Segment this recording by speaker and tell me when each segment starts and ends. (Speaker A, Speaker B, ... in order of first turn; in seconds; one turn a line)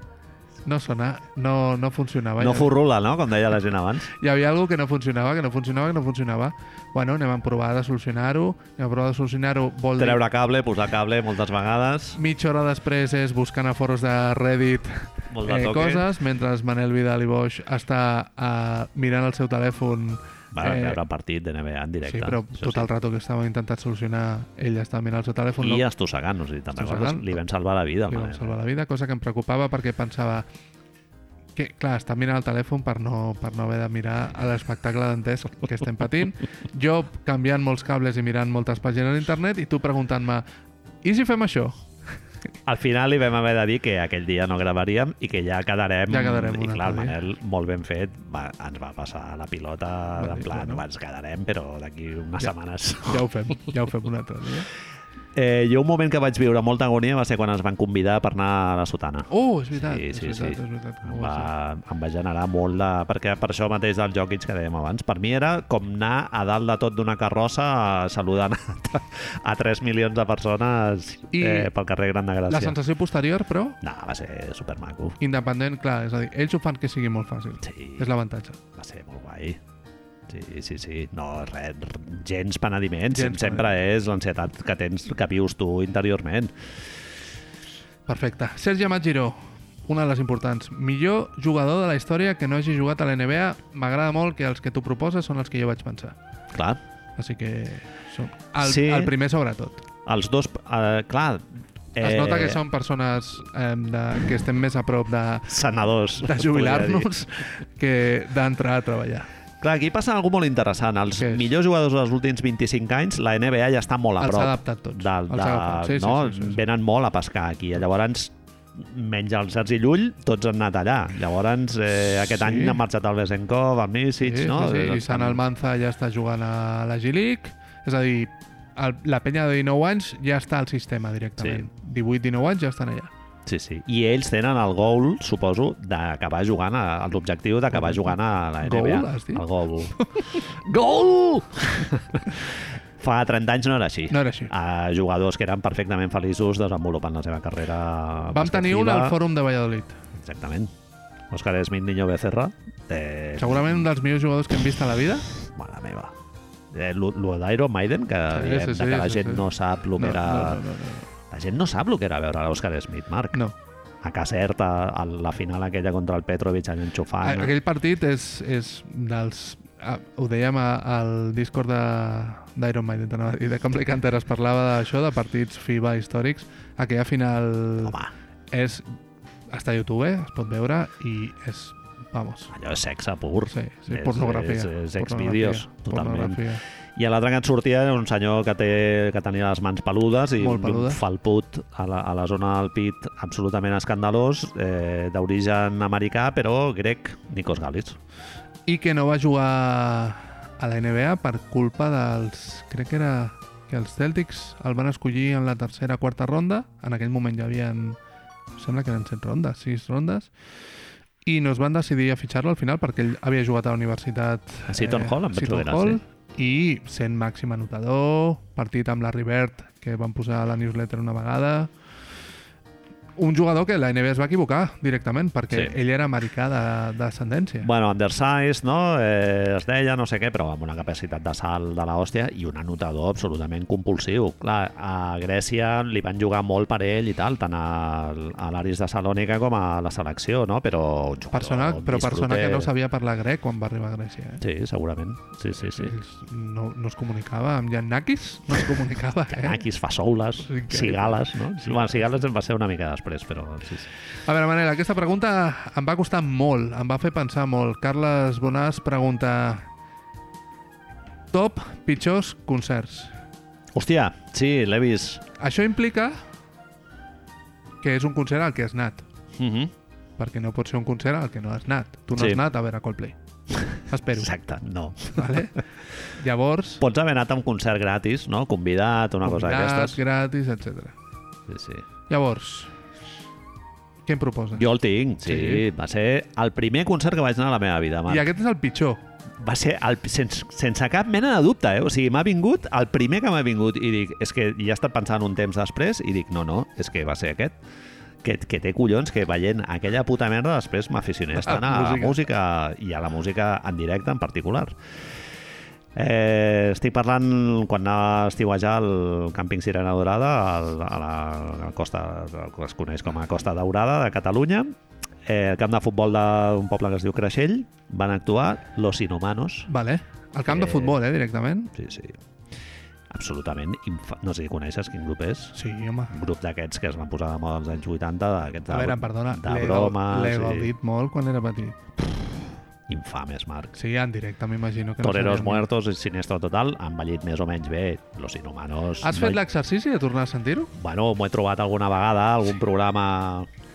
Speaker A: 0.7-2.8
Speaker B: 2.4-4.1
Speaker A: 4.1-10.2
Speaker B: 10.0-12.2
Speaker A: 12.2-21.0
Speaker B: 15.3-16.1
Speaker B: 20.5-22.9
Speaker A: 22.1-25.9
Speaker B: 25.6-28.6
Speaker A: 26.8-27.4
Speaker A: 28.1-30.5
Speaker A: 31.6-40.5
Speaker A: 41.0-41.8
Speaker B: 42.6-53.2
Speaker A: 46.1-47.2
Speaker A: 50.2-50.8
Speaker A: 53.1-54.7
Speaker B: 55.4-72.8
Speaker A: 59.3-61.5
Speaker A: 71.3-71.7
Speaker A: 72.5-73.8
Speaker B: 73.8-75.2
Speaker A: 75.2-78.6
Speaker B: 77.6-78.1
Speaker B: 78.8-79.6
Speaker B: 80.3-86.5
Speaker A: 83.1-83.7
Speaker A: 88.1-96.2
Speaker B: 96.5-96.8
Speaker A: 97.2-99.8
Speaker B: 98.6-99.1
Speaker B: 100.0-102.6
Speaker A: 102.0-105.6
Speaker B: 105.5-107.1
Speaker A: 106.2-109.3
Speaker B: 109.6-125.4
Speaker A: 111.2-111.5
Speaker A: 114.2-116.6
Speaker A: 122.2-122.8
Speaker A: 124.2-133.1
Speaker B: 131.4-131.7
Speaker B: 133.5-149.2
Speaker A: 137.8-139.4
Speaker A: 140.0-140.3
Speaker A: 144.1-144.5
Speaker A: 148.3-150.0
Speaker B: 150.2-150.7
Speaker B: 151.3-153.8
Speaker A: 153.4-155.3
Speaker B: 155.4-156.2
Speaker B: 156.7-160.6
Speaker A: 158.3-161.1
Speaker B: 161.3-163.4
Speaker B: 164.0-167.5
Speaker A: 167.2-178.0
Speaker B: 177.8-178.1
Speaker A: 178.5-178.8
Speaker A: 179.5-182.5
Speaker B: 182.5-186.4
Speaker A: 183.5-186.6
Speaker B: 187.0-198.0
Speaker A: 190.4-191.0
Speaker A: 198.7-208.0
Speaker A: 208.6-210.3
Speaker A: 211.2-221.7
Speaker B: 214.7-216.0
Speaker A: 223.2-227.7
Speaker B: 227.6-242.7
Speaker A: 241.3-244.4
Speaker B: 244.4-245.9
Speaker A: 245.6-249.7
Speaker B: 249.3-253.9
Speaker A: 250.4-252.0
Speaker A: 254.2-259.7
Speaker A: 261.3-263.1
Speaker B: 263.7-265.2
Speaker A: 265.4-266.2
Speaker A: 267.8-269.1
Speaker B: 269.4-269.7
Speaker A: 270.2-273.2
Speaker B: 272.1-272.4
Speaker A: 273.9-274.3
Speaker B: 274.1-275.5
Speaker A: 275.1-275.6
Speaker A: 276.1-276.8
Speaker B: 276.8-280.0
Speaker A: 279.2-280.9
Speaker B: 281.5-281.9
Speaker A: 282.1-282.7
Speaker A: 284.1-284.7
Speaker B: 284.6-288.3
Speaker A: 285.2-285.7
Speaker A: 288.1-289.0
Speaker B: 289.4-297.6
Speaker B: 298.2-304.7
Speaker A: 301.4-302.2
Speaker B: 305.9-314.7
Speaker B: 315.2-319.7
Speaker A: 319.7-321.7
Speaker B: 320.5-320.9
Speaker B: 321.7-322.2
Speaker B: 323.1-325.6
Speaker A: 325.5-326.2
Speaker B: 326.1-330.7
Speaker A: 328.7-332.2
Speaker B: 332.9-333.8
Speaker A: 333.8-335.7
Speaker B: 335.0-339.4
Speaker A: 339.0-340.7
Speaker B: 340.8-343.5